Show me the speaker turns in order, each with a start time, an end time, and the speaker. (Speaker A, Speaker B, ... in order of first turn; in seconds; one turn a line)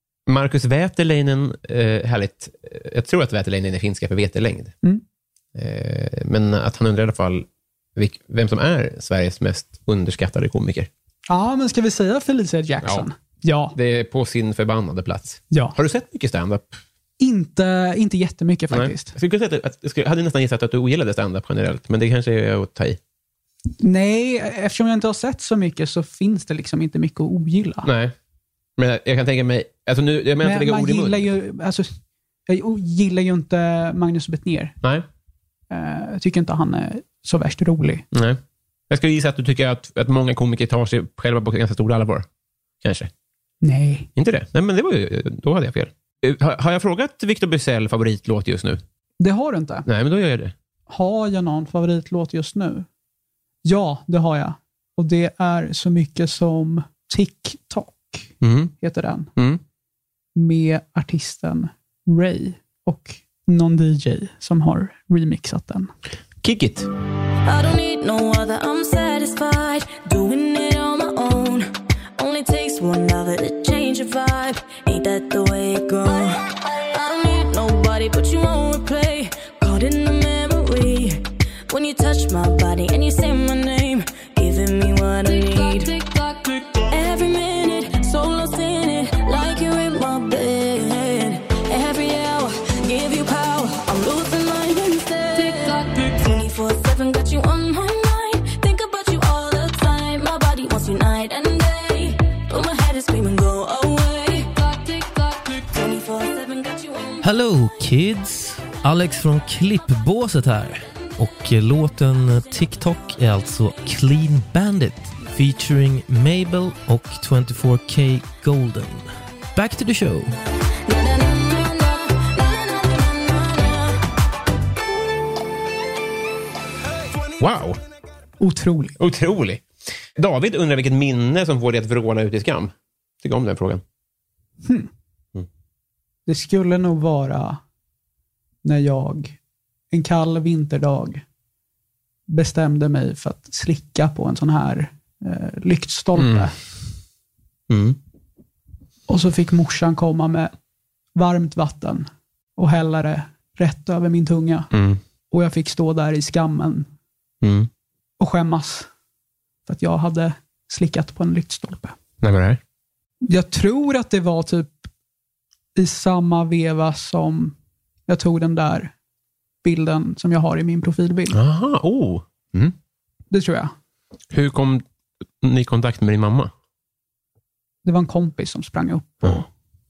Speaker A: 0.3-4.7
Speaker A: 5.5-10.9
Speaker B: 11.3-13.7
Speaker A: 13.7-16.8
Speaker B: 17.2-19.1
Speaker A: 18.7-23.0
Speaker B: 23.8-27.9
Speaker A: 27.8-28.1
Speaker A: 28.8-31.3
Speaker B: 30.4-31.9
Speaker B: 32.5-34.7
Speaker B: 35.7-38.0
Speaker A: 38.1-42.2
Speaker A: 42.8-43.1
Speaker B: 43.6-44.1
Speaker A: 44.2-48.8
Speaker B: 49.2-49.9
Speaker A: 49.9-50.5
Speaker B: 50.9-52.8
Speaker B: 53.6-59.3
Speaker A: 58.4-58.7
Speaker B: 60.4-65.9
Speaker A: 66.4-66.9
Speaker C: 67.4-107.2
Speaker D: 107.2-120.3
Speaker C: 120.8-124.0
Speaker A: 127.3-127.8
Speaker B: 128.4-128.9
Speaker A: 129.0-129.6
Speaker A: 130.2-133.8
Speaker B: 136.2-137.6
Speaker B: 138.6-139.4
Speaker B: 139.9-141.2
Speaker B: 142.3-146.5
Speaker A: 146.2-146.5
Speaker A: 147.7-148.0
Speaker B: 149.1-150.5
Speaker B: 151.2-154.7
Speaker A: 154.7-155.0
Speaker B: 155.3-156.9
Speaker A: 157.4-157.7
Speaker B: 158.2-158.9
Speaker B: 159.7-161.9
Speaker A: 162.2-162.6
Speaker B: 163.2-164.9
Speaker B: 165.8-167.5
Speaker B: 168.1-168.9
Speaker B: 169.6-171.4
Speaker A: 171.3-172.7
Speaker B: 173.3-173.7
Speaker A: 174.3-174.8
Speaker A: 175.4-176.5
Speaker B: 177.8-179.4